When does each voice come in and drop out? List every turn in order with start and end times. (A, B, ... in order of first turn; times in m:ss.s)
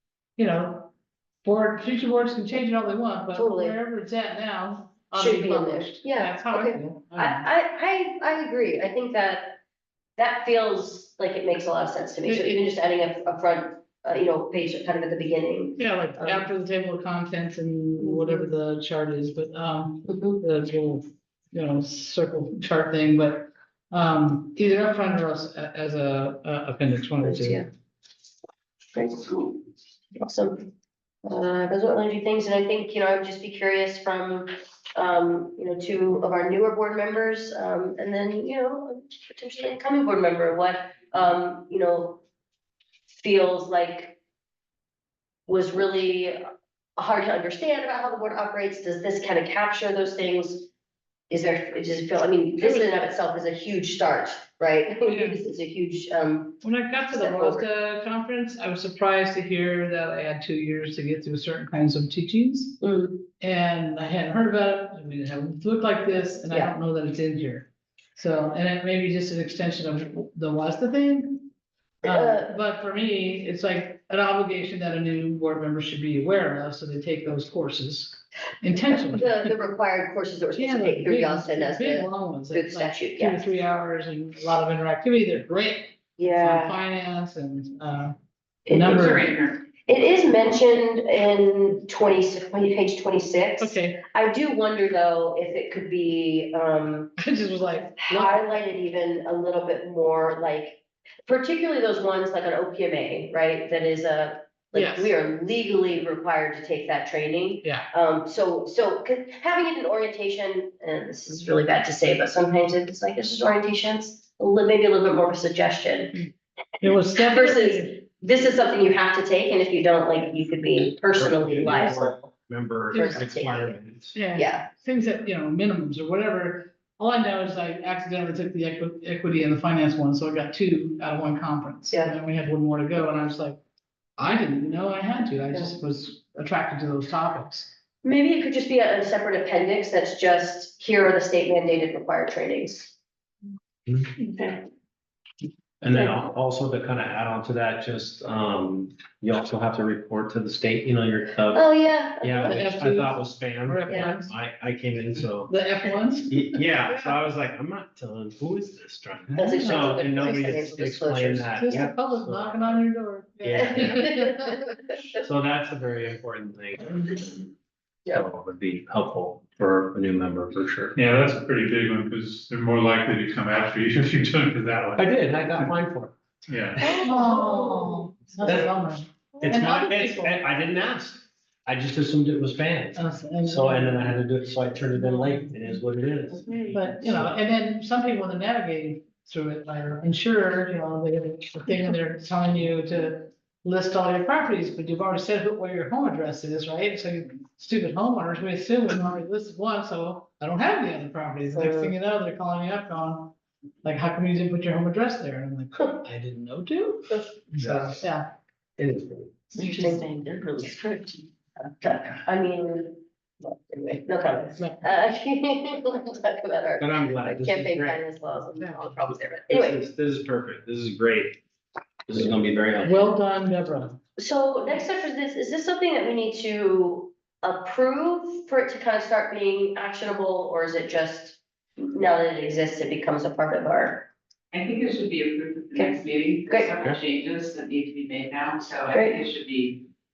0:00.4-0:00.9 A
0:01.4-0:07.5 A
0:03.4-0:03.8 B
0:05.2-0:09.6 B
0:10.2-0:16.5 B
0:12.2-0:12.6 A
0:15.8-0:27.7 A
0:18.0-0:18.5 B
0:20.1-0:20.4 B
0:27.2-0:27.7 B
0:28.9-0:29.6 B
0:30.2-0:30.7 B
0:31.2-0:42.2 B
0:43.1-0:44.2 B
0:45.5-0:46.4 B
0:47.0-0:50.7 B
0:51.3-0:57.7 B
0:52.6-0:52.9 A
0:55.1-0:55.4 A
0:56.6-1:02.8 A
1:02.8-1:03.3 B
1:03.4-1:11.5 A
1:12.0-1:12.5 B
1:12.0-1:19.6 A
1:18.9-1:23.5 B
1:20.6-1:28.2 A
1:26.2-1:26.8 B
1:28.7-1:29.4 A
1:28.8-1:29.6 C
1:29.8-1:37.2 B
1:33.6-1:34.0 A
1:37.2-1:38.4 A
1:38.0-1:56.2 B
1:44.7-1:45.1 A
1:47.6-1:47.9 A
1:56.8-1:58.0 A
1:56.9-2:02.2 B
2:01.2-2:04.2 D
2:02.9-2:03.8 B
2:04.1-2:13.6 A
2:04.4-2:04.7 B
2:14.2-2:17.7 A
2:18.0-2:23.0 B
2:23.9-2:24.1 D
2:24.2-2:24.6 B
2:25.8-2:31.7 D
2:31.5-2:32.7 B
2:32.2-2:35.5 D
2:32.4-2:34.3 A
2:33.9-2:34.2 B
2:35.5-2:36.6 A
2:36.3-2:42.8 D
2:39.3-2:40.0 A
2:39.4-2:41.6 B
2:41.6-2:44.7 A
2:43.4-2:44.2 D
2:43.6-2:44.6 B
2:45.2-2:47.3 D
2:48.1-2:50.9 D
2:51.0-2:55.1 E
2:55.0-2:56.2 D
2:56.5-2:57.0 E
2:56.8-2:58.5 B
2:57.0-3:00.4 A
2:58.4-2:58.7 D
2:59.4-3:07.3 D
3:03.0-3:04.2 A
3:05.0-3:05.5 A
3:06.7-3:28.3 A
3:21.5-3:21.9 B
3:27.6-3:27.9 D
3:28.8-3:29.3 D
3:29.6-3:39.8 B
3:29.6-3:31.2 C
3:36.8-3:38.0 D
3:39.5-3:41.4 D
3:42.1-3:43.0 D
3:42.8-3:44.0 A
3:44.2-3:54.1 B
3:54.5-3:59.8 C
3:55.8-3:56.7 B
3:58.9-3:59.2 B